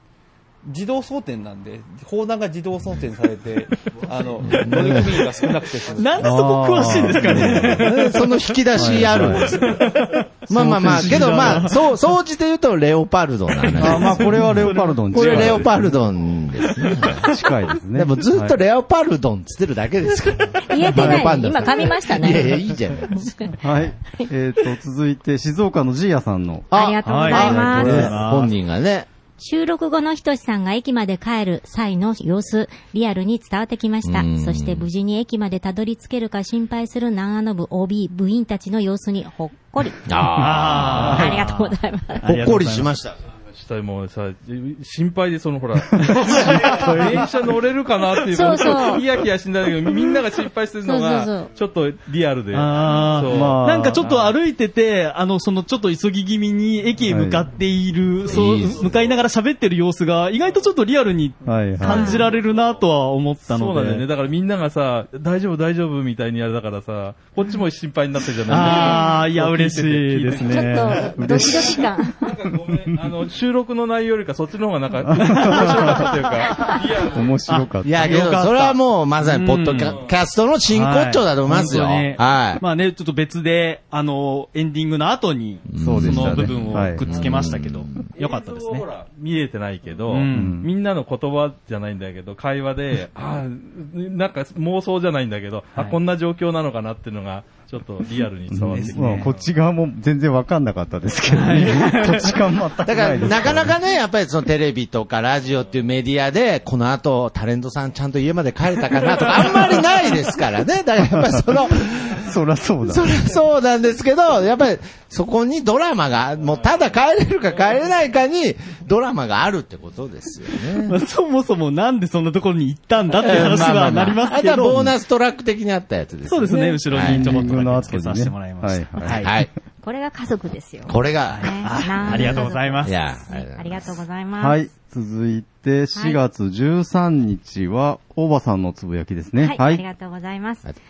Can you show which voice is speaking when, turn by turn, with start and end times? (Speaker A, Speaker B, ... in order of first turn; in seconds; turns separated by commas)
Speaker A: 0.6-6.3, Speaker B: 4.5-5.1, Speaker C: 5.9-8.4, Speaker D: 6.2-7.9, Speaker B: 7.3-9.8, Speaker D: 8.7-9.6, Speaker C: 9.1-11.8, Speaker B: 10.5-17.3, Speaker D: 10.5-11.7, Speaker C: 13.7-15.6, Speaker D: 13.8-16.0, Speaker D: 17.2-18.6, Speaker B: 17.9-23.5, Speaker E: 20.6-22.6, Speaker E: 23.1-23.5, Speaker D: 23.6-26.7, Speaker B: 26.7-29.1, Speaker E: 26.7-28.1, Speaker C: 27.0-28.5, Speaker D: 27.3-28.2, Speaker E: 29.4-40.1, Speaker B: 34.0-34.9, Speaker B: 40.0-41.3, Speaker C: 40.3-42.9, Speaker E: 41.0-42.2, Speaker B: 42.2-43.1, Speaker F: 43.5-54.3, Speaker D: 46.1-47.3, Speaker C: 46.2-47.0, Speaker E: 48.3-49.0, Speaker E: 50.8-51.5, Speaker C: 52.5-64.0, Speaker D: 53.3-54.0, Speaker D: 57.1-57.5, Speaker B: 58.3-58.9, Speaker D: 61.4-62.2, Speaker E: 61.8-62.2, Speaker F: 63.5-71.6, Speaker C: 68.5-71.1, Speaker E: 68.7-69.0, Speaker E: 70.5-72.3, Speaker D: 71.2-71.8, Speaker F: 72.2-77.3, Speaker D: 72.7-73.0, Speaker D: 75.0-76.2, Speaker C: 75.2-76.1, Speaker D: 77.0-78.2, Speaker C: 77.5-80.0, Speaker B: 77.8-82.6, Speaker F: 79.8-80.1, Speaker C: 80.7-88.9, Speaker B: 85.7-88.1, Speaker D: 85.8-87.1, Speaker F: 88.2-99.4, Speaker C: 90.1-90.6, Speaker D: 90.3-90.7, Speaker D: 98.5-103.8, Speaker C: 98.7-99.3, Speaker C: 101.3-102.3, Speaker B: 102.8-112.3, Speaker D: 112.2-113.1, Speaker B: 112.8-120.9, Speaker C: 120.8-124.9, Speaker B: 123.1-127.3, Speaker C: 126.2-129.3, Speaker D: 127.0-129.3, Speaker B: 129.1-129.5, Speaker E: 129.8-134.6, Speaker B: 130.8-134.0, Speaker C: 131.3-133.0, Speaker D: 134.4-139.8, Speaker E: 139.4-140.7